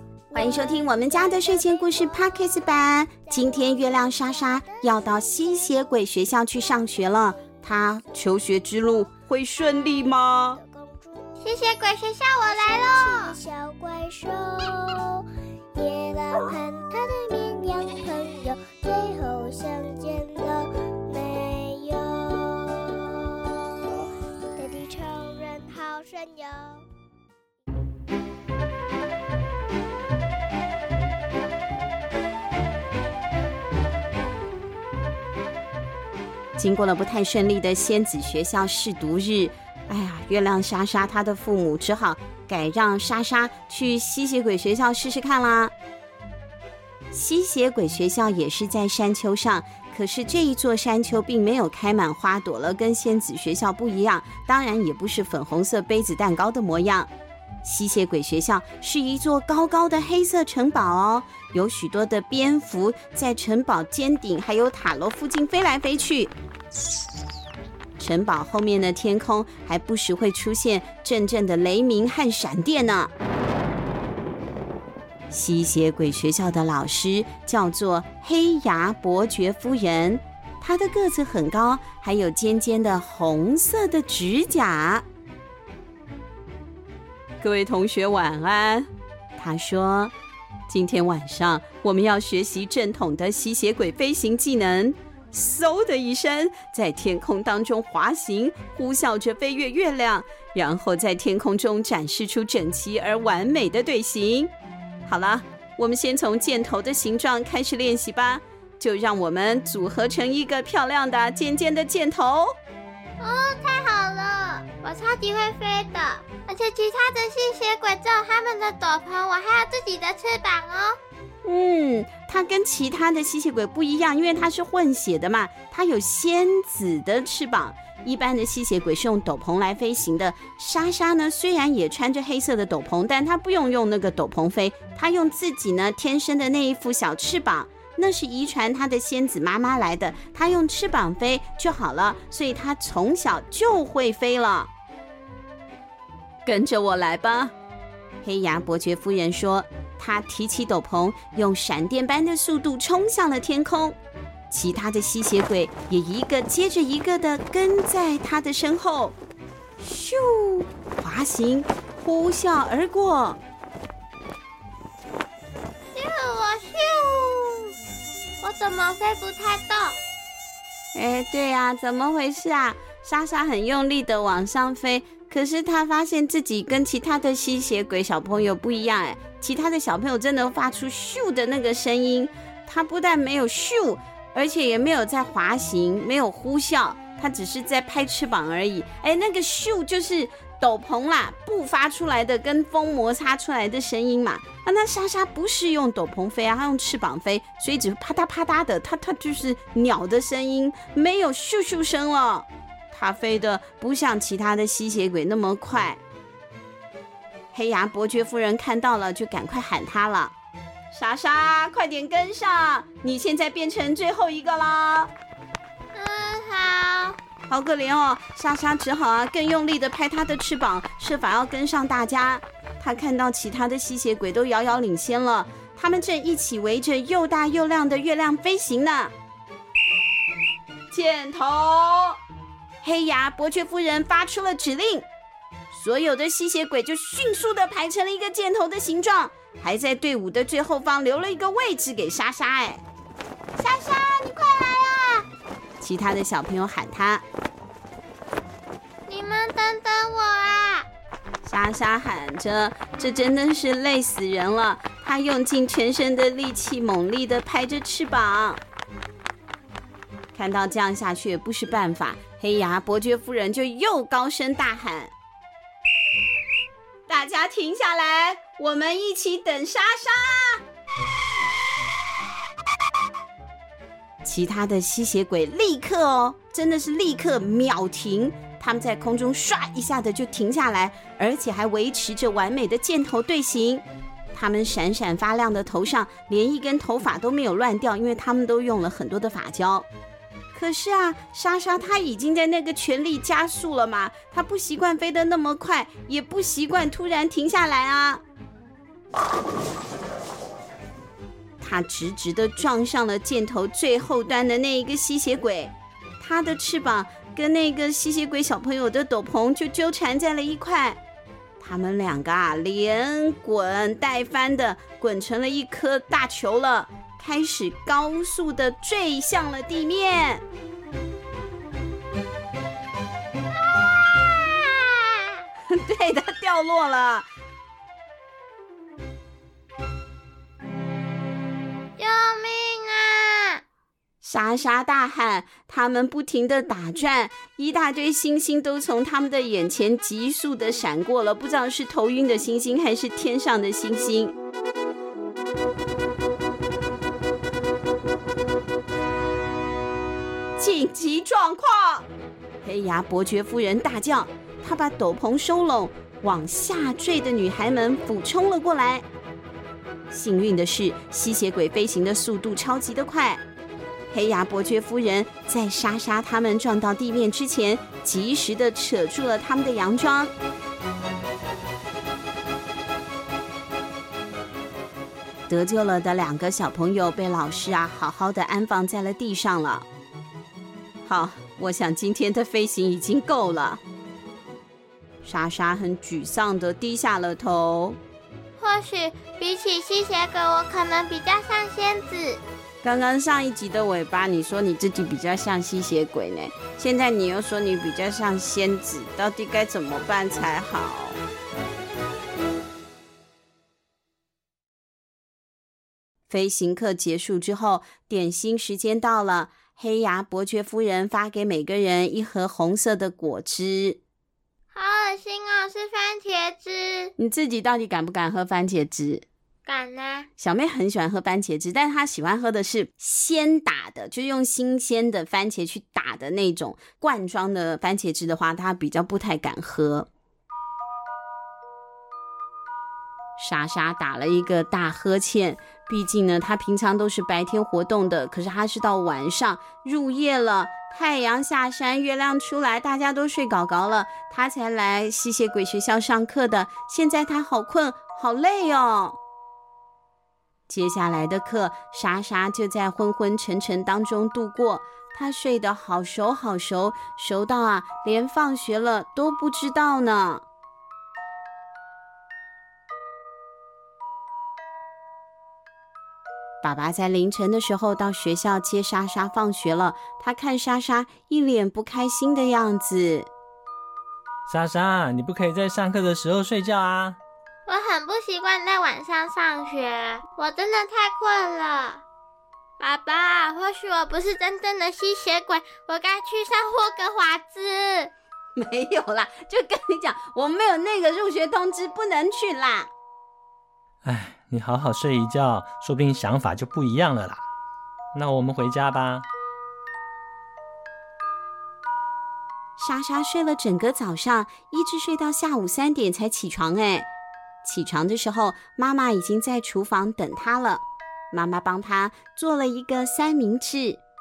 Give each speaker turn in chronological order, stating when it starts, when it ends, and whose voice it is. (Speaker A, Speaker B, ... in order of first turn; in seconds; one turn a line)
Speaker A: 0.3-5.9
Speaker B: 0.3-10.6
Speaker A: 9.8-11.5
Speaker C: 11.4-13.3
Speaker A: 12.4-26.9
Speaker B: 36.6-45.7
Speaker B: 47.1-57.1
Speaker B: 57.6-66.3
Speaker B: 68.0-73.1
Speaker B: 75.3-85.0
Speaker B: 87.4-90.1
Speaker B: 90.7-104.5
Speaker B: 105.1-112.5
Speaker C: 113.2-121.0
Speaker B: 121.4-144.7
Speaker B: 146.4-147.5
Speaker B: 148.2-153.9
Speaker B: 154.5-159.2
Speaker B: 159.8-163.4
Speaker C: 165.9-167.7
Speaker C: 168.4-170.0
Speaker B: 170.9-206.0
Speaker B: 207.5-210.3
Speaker B: 210.9-215.1
Speaker C: 215.9-217.2
Speaker B: 217.5-229.1
Speaker B: 230.9-232.2
Speaker B: 232.8-235.1
Speaker B: 235.7-242.8
Speaker B: 243.6-245.3
Speaker B: 245.8-247.2
Speaker C: 249.1-250.9
Speaker B: 251.4-258.6
Speaker B: 260.3-265.1
Speaker B: 267.1-270.6
Speaker B: 274.2-289.9
Speaker B: 290.5-298.2
Speaker B: 301.6-311.0
Speaker B: 311.6-320.4
Speaker C: 323.8-325.4
Speaker B: 325.6-327.3
Speaker C: 332.0-333.6
Speaker B: 334.2-344.3
Speaker B: 350.6-352.1
Speaker B: 352.6-359.0
Speaker B: 360.1-363.4
Speaker B: 364.1-370.3
Speaker B: 375.5-379.9
Speaker B: 381.0-383.8
Speaker B: 385.2-388.0
Speaker C: 388.6-392.4
Speaker B: 392.8-401.2
Speaker B: 406.3-414.0
Speaker C: 414.7-417.1
Speaker B: 417.2-419.2
Speaker C: 419.6-420.3
Speaker B: 420.4-430.1
Speaker B: 433.4-449.2
Speaker B: 450.7-460.4
Speaker B: 466.6-473.3
Speaker D: 474.5-477.2
Speaker C: 477.6-482.0
Speaker C: 482.8-488.1
Speaker B: 488.6-492.9
Speaker D: 494.0-497.4
Speaker D: 498.1-499.3
Speaker B: 502.8-507.1
Speaker B: 507.6-514.0